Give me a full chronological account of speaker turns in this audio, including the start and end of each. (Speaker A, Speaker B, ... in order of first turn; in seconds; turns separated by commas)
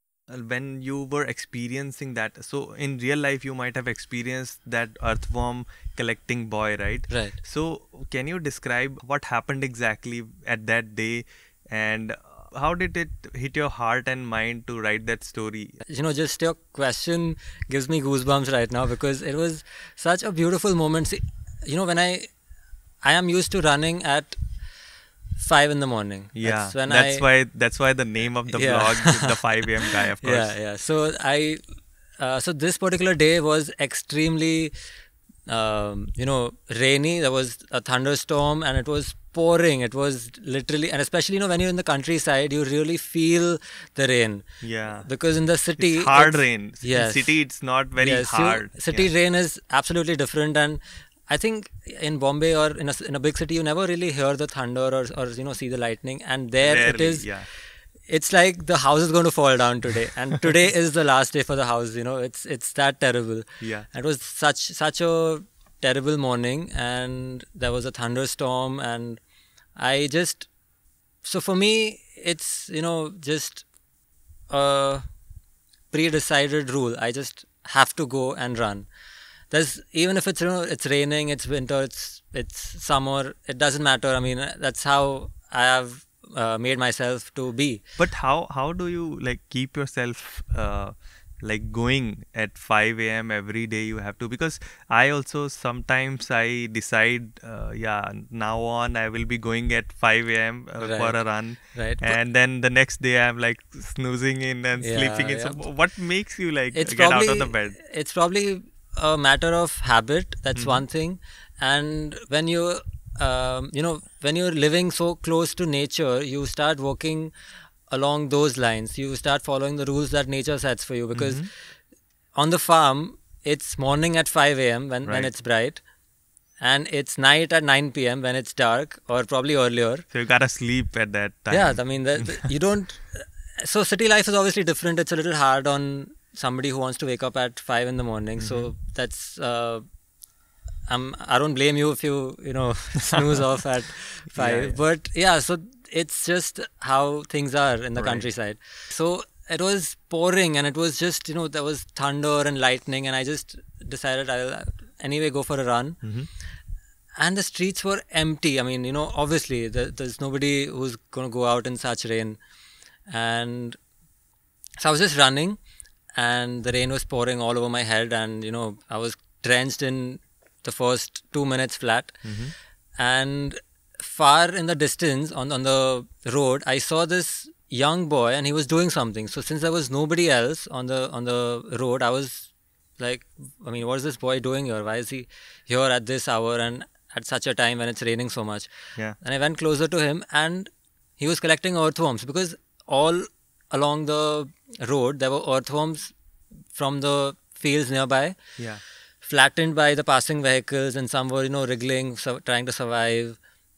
Speaker A: 0.3-15.8, Speaker B: 7.1-7.4, Speaker B: 15.9-22.3, Speaker B: 23.0-24.4, Speaker B: 25.4-27.2, Speaker A: 26.4-30.5, Speaker B: 28.5-31.6, Speaker B: 32.2-34.7, Speaker B: 35.5-44.5, Speaker A: 44.6-45.1, Speaker B: 45.0-47.4, Speaker A: 45.8-49.1, Speaker B: 48.0-57.3, Speaker A: 56.6-57.5, Speaker B: 58.1-69.2, Speaker A: 63.6-63.9, Speaker B: 69.8-70.5, Speaker B: 71.2-73.7, Speaker B: 74.5-75.0, Speaker B: 75.9-78.9, Speaker B: 79.5-87.8, Speaker A: 88.0-107.8, Speaker B: 100.8-101.2, Speaker B: 101.7-102.2, Speaker B: 104.8-105.6, Speaker B: 106.7-117.3, Speaker A: 110.6-110.8, Speaker B: 117.9-121.5, Speaker A: 121.1-121.5, Speaker B: 122.4-125.8, Speaker A: 125.1-125.3, Speaker B: 126.6-130.1, Speaker A: 130.1-132.5, Speaker B: 131.5-139.8, Speaker A: 138.4-138.7, Speaker B: 140.9-156.0, Speaker A: 144.3-144.8, Speaker A: 148.0-148.2, Speaker A: 156.0-156.3, Speaker B: 157.2-162.4, Speaker B: 163.1-163.8, Speaker B: 164.8-165.6, Speaker B: 166.2-172.2, Speaker A: 172.2-172.5, Speaker B: 173.0-196.1, Speaker B: 196.7-198.4, Speaker B: 199.2-203.4